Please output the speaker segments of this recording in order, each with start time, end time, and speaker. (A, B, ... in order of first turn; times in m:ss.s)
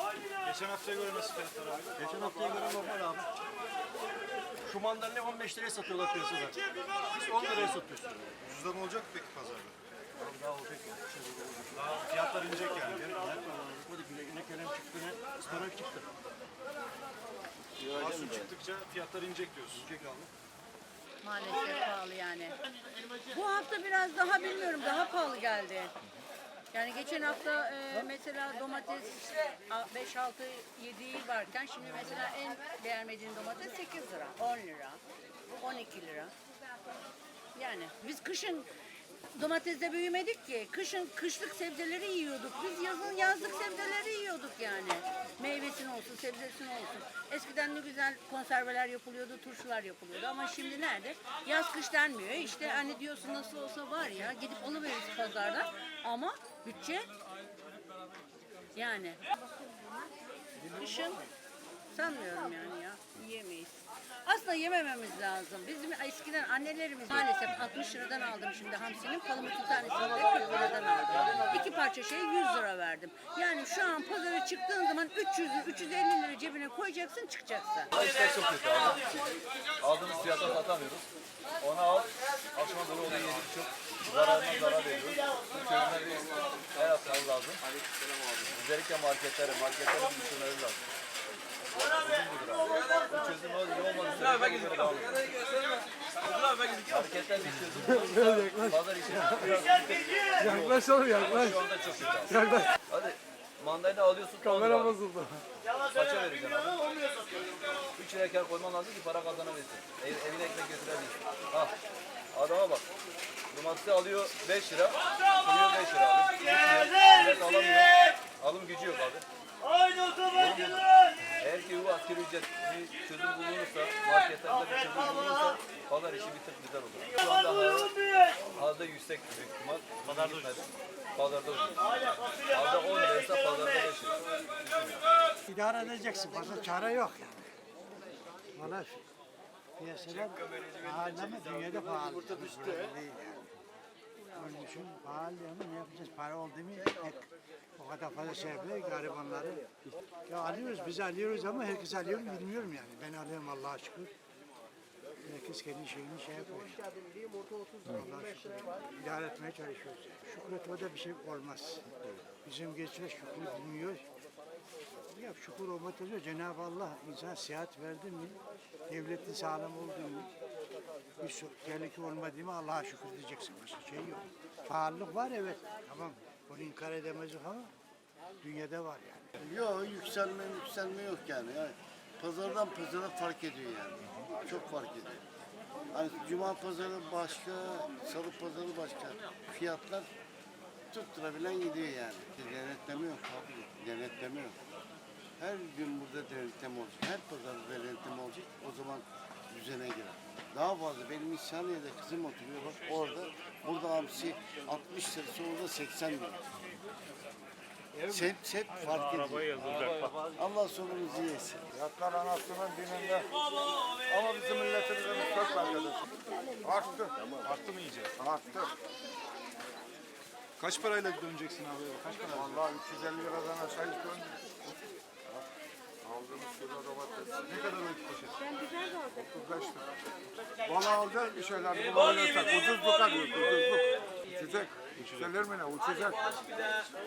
0:00.4-0:01.9 A
0:01.9-0:03.3 B
0:04.6-0:08.3 B
0:07.1-0:07.8 A
0:08.4-0:09.8 A
0:10.2-0:12.0 B
0:11.7-0:13.1 A
0:12.7-0:16.1 B
0:17.8-0:19.8 A
0:17.8-0:18.5 B
0:19.7-0:20.3 B
0:21.2-0:22.6 C
0:23.3-0:25.9 C
0:26.7-0:35.0 C
0:35.6-0:36.3 C
0:37.6-0:38.7 C
0:39.3-0:57.1 C
0:58.7-0:59.2 C
1:00.6-1:01.3 C
1:01.9-1:17.9 C
1:17.9-1:19.2 D
1:19.8-1:21.1 D
1:21.6-1:27.6 D
1:28.5-1:30.8 D
1:31.8-1:45.2 D
1:45.8-1:47.1 D
1:47.9-1:51.8 D
1:52.3-1:52.9 D
1:53.5-1:59.2 D
2:00.1-2:14.2 D
2:15.5-2:17.5 E
2:18.5-2:19.0 E
2:19.8-2:23.5 E
2:24.3-2:29.7 E
2:30.2-2:34.1 E
2:35.2-2:36.9 E
2:37.8-2:44.0 E
2:45.1-2:50.3 E
2:51.2-2:57.7 E
2:58.4-2:59.4 E
2:59.4-3:05.2 F
3:05.9-3:10.1 F
3:10.9-3:14.6 F
3:15.4-3:26.5 F
3:28.0-3:31.6 F
3:31.7-3:33.3 G
3:34.0-3:36.0 G
3:36.6-3:37.2 G
3:37.3-3:38.1 A
3:38.2-3:38.7 G
3:40.6-3:42.8 A
3:42.3-3:44.7 G
3:46.0-3:47.4 G
3:47.5-3:48.4 A
3:49.1-3:49.8 G
3:50.6-3:56.4 G